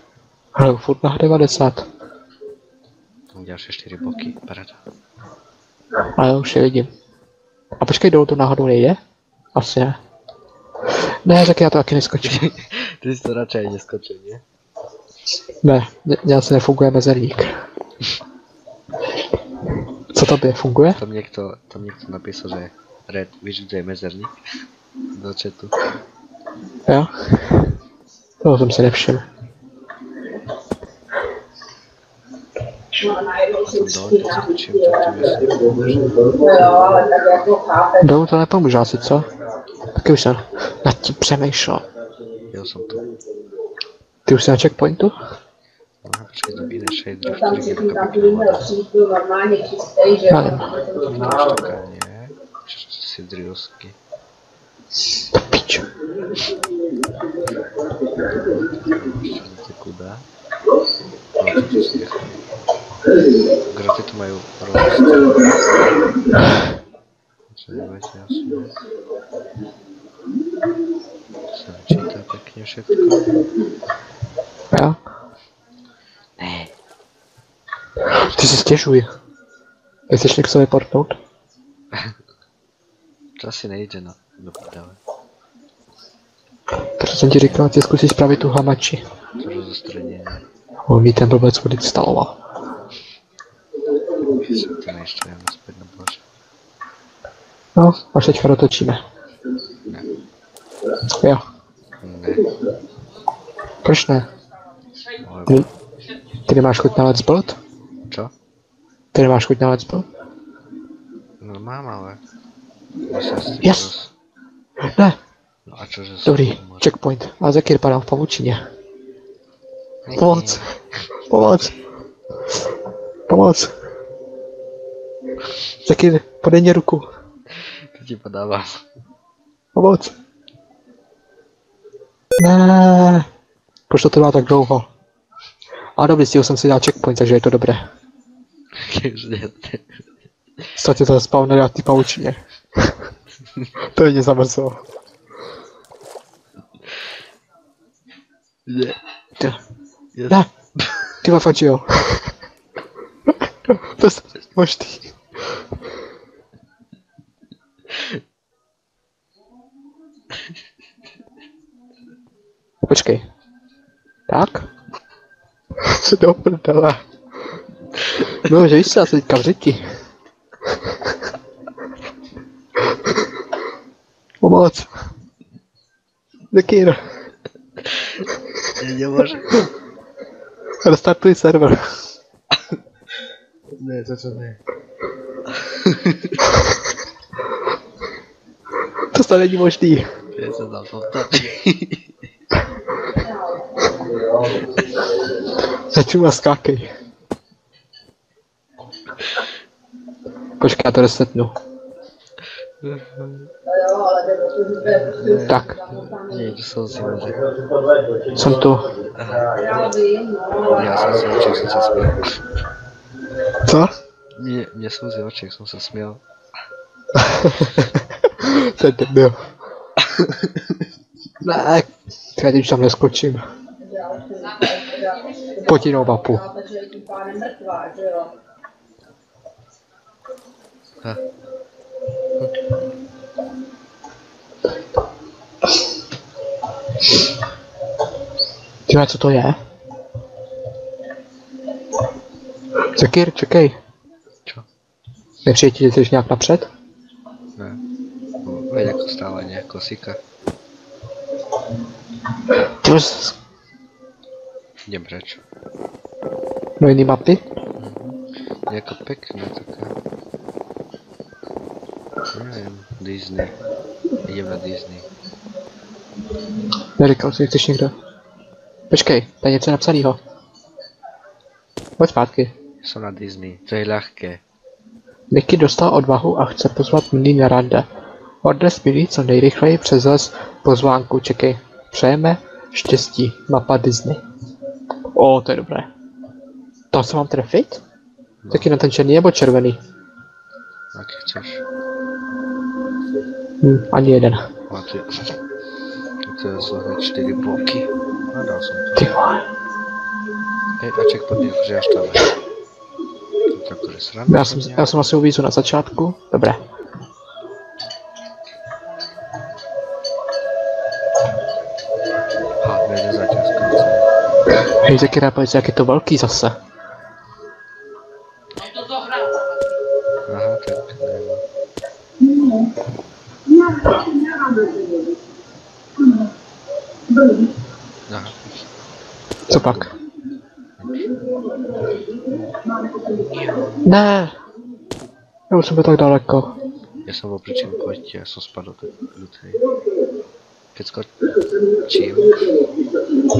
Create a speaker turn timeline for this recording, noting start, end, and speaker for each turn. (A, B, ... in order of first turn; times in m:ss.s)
0:00.5-0:01.9 A
0:03.3-0:04.8 B
0:06.1-0:06.9 A
0:07.8-0:09.0 A
0:09.5-0:10.0 A
0:11.2-0:12.5 A
0:12.2-0:14.4 B
0:15.6-0:17.6 A
0:20.1-0:21.0 A
0:20.9-0:24.4 B
0:25.1-0:25.8 B
0:26.9-0:27.7 A
0:28.4-0:29.2 A
0:32.9-0:35.1 C
0:33.6-0:36.3 B
0:36.4-0:38.1 C
0:38.0-0:39.3 A
0:39.9-0:41.8 A
0:42.5-0:43.1 B
0:44.2-0:45.2 A
0:46.0-0:48.8 B
0:47.2-0:51.2 C
0:50.3-0:50.7 A
0:50.8-0:54.0 B
0:55.3-0:55.9 A
0:58.3-1:00.2 B
1:01.4-1:02.4 B
1:03.7-1:05.5 B
1:07.5-1:08.7 B
1:11.5-1:13.4 B
1:14.7-1:15.0 A
1:16.4-1:16.7 B
1:18.1-1:19.1 A
1:20.1-1:21.2 A
1:23.4-1:25.0 B
1:27.0-1:29.0 A
1:29.4-1:30.4 B
1:30.9-1:32.4 A
1:34.3-1:36.2 B
1:37.8-1:39.0 A
1:39.8-1:40.1 B
1:42.0-1:42.5 B
1:43.8-1:44.2 A
1:45.2-1:45.6 B
1:46.5-1:47.6 A
1:48.1-1:48.3 B
1:49.1-1:50.0 A
1:51.4-1:52.2 B
1:53.0-1:54.1 B
1:53.6-1:53.9 A
1:54.8-1:55.2 A
1:55.6-1:56.9 B
1:56.2-1:58.6 A
2:00.0-2:01.0 B
2:00.1-2:00.7 A
2:01.3-2:01.7 A
2:03.3-2:03.7 A
2:05.8-2:07.1 A
2:07.5-2:08.8 B
2:09.7-2:10.1 A
2:12.4-2:13.3 A
2:13.9-2:14.9 A
2:16.0-2:17.9 A
2:18.7-2:20.0 B
2:20.7-2:23.0 A
2:23.8-2:24.8 A
2:28.6-2:29.0 B
2:30.1-2:31.2 B
2:31.2-2:32.3 A
2:33.7-2:35.2 A
2:37.9-2:38.2 B
2:42.8-2:43.2 A
2:44.3-2:44.7 A
2:45.8-2:47.0 A
2:48.4-2:49.9 A
2:54.4-2:54.9 A
2:56.5-2:57.0 A
2:57.8-2:58.2 B
2:58.8-2:59.7 B
3:00.8-3:02.0 A
3:03.8-3:04.6 B
3:05.5-3:06.4 B
3:09.1-3:10.1 A
3:10.3-3:12.1 B
3:13.2-3:13.9 C
3:15.7-3:16.9 A
3:20.6-3:21.5 A
3:22.8-3:23.5 B
3:23.6-3:26.5 C
3:24.8-3:27.4 B
3:25.4-3:25.7 A
3:28.3-3:29.0 A
3:29.1-3:29.6 B
3:29.6-3:31.0 C
3:30.6-3:32.4 B
3:33.6-3:33.9 A
3:34.3-3:36.2 B
3:37.2-3:39.4 A
3:40.0-3:40.5 B
3:41.4-3:43.4 A
3:43.8-3:48.3 C
3:45.7-3:46.4 A
3:52.4-3:52.7 B
3:58.9-3:59.6 A
4:02.9-4:03.8 A
4:05.4-4:06.7 A
4:07.6-4:07.8 B
4:08.4-4:10.2 B
4:12.8-4:13.4 A
4:14.8-4:15.4 B
4:16.8-4:17.4 A
4:17.8-4:20.0 B
4:22.3-4:23.6 B
4:24.2-4:25.1 B
4:27.0-4:27.9 A
4:28.9-4:30.2 A
4:32.0-4:32.5 A
4:32.8-4:34.4 B
4:35.3-4:37.9 A
4:38.4-4:44.2 A
4:45.1-4:45.9 A
4:46.9-4:47.8 A
4:48.4-4:48.7 B
4:48.5-4:49.8 A
4:50.9-4:51.6 B
4:53.6-4:54.5 A
4:54.7-4:55.3 B
4:56.2-4:59.2 B
4:59.0-4:59.4 A
5:00.8-5:02.3 B
5:03.5-5:04.9 B
5:04.3-5:06.6 A
5:12.6-5:14.1 B
5:14.7-5:16.6 A
5:20.2-5:21.4 B
5:28.1-5:28.4 B
5:29.5-5:29.9 A
5:29.5-5:29.9 B
5:30.8-5:31.3 B
5:32.2-5:32.5 B
5:33.1-5:33.8 B
5:33.8-5:34.3 A
5:35.5-5:36.5 A
5:37.0-5:39.6 B
5:40.7-5:42.5 B